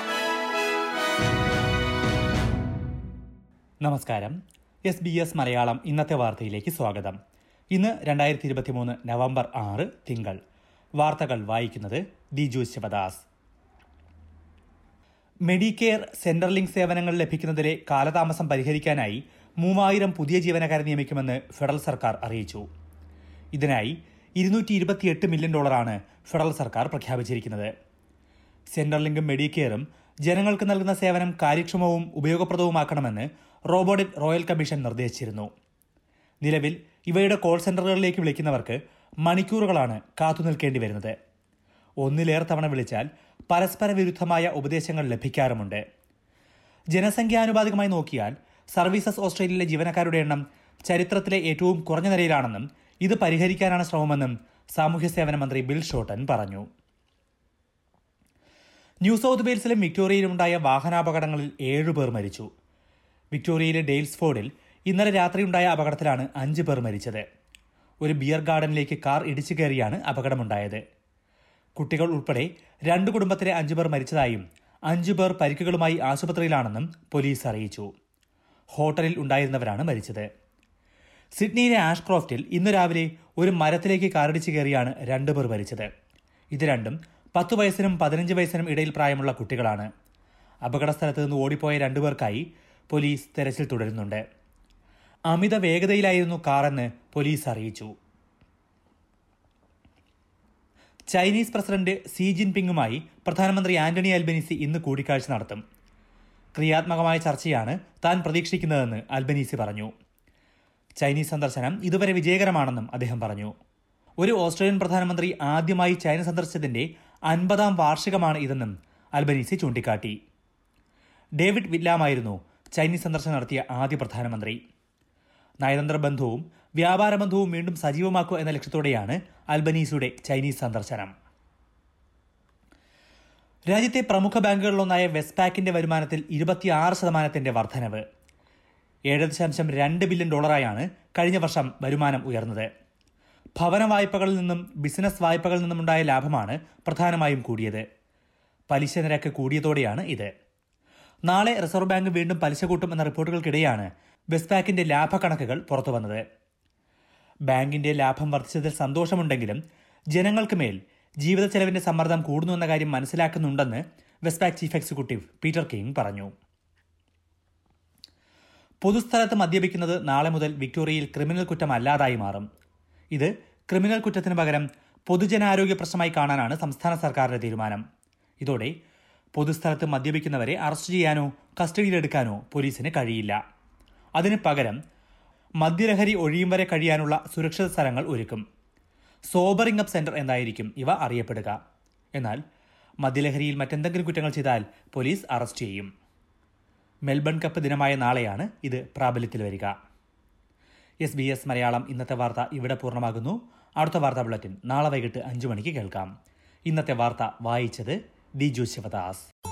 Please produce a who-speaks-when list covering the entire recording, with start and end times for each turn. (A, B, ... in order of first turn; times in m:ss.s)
0:03.8-0:07.2 A
0:07.7-0:10.4 A
0:11.0-0:13.2 A
0:15.5-0:22.6 A
0:23.6-0:27.7 A
0:28.7-0:35.5 A
0:36.4-0:41.1 A
0:42.0-0:45.8 A
0:46.9-0:56.7 A
0:59.0-1:02.5 A
1:03.3-1:07.2 A
1:08.0-1:10.8 A
1:11.8-1:17.9 A
1:18.7-1:20.3 A
1:21.4-1:25.9 A
1:26.5-1:29.9 A
1:30.6-1:34.2 A
1:35.3-1:37.9 A
1:41.1-1:45.6 A
1:46.6-1:49.9 A
1:51.0-1:53.5 A
1:54.2-2:00.2 A
2:01.4-2:04.6 A
2:05.6-2:11.1 A
2:13.7-2:18.0 A
2:19.1-2:22.7 A
2:23.6-2:27.8 A
2:28.7-2:30.3 A
2:31.3-2:36.2 A
2:37.5-2:39.6 A
2:40.1-2:46.3 A
2:48.8-2:52.5 A
2:53.1-2:57.8 A
2:58.4-2:58.7 A
2:59.4-3:03.4 A
3:04.2-3:04.8 A
3:05.6-3:08.4 A
3:09.3-3:11.6 A
3:13.0-3:15.9 A
3:17.1-3:19.7 A
3:21.0-3:26.1 A
3:26.7-3:29.3 A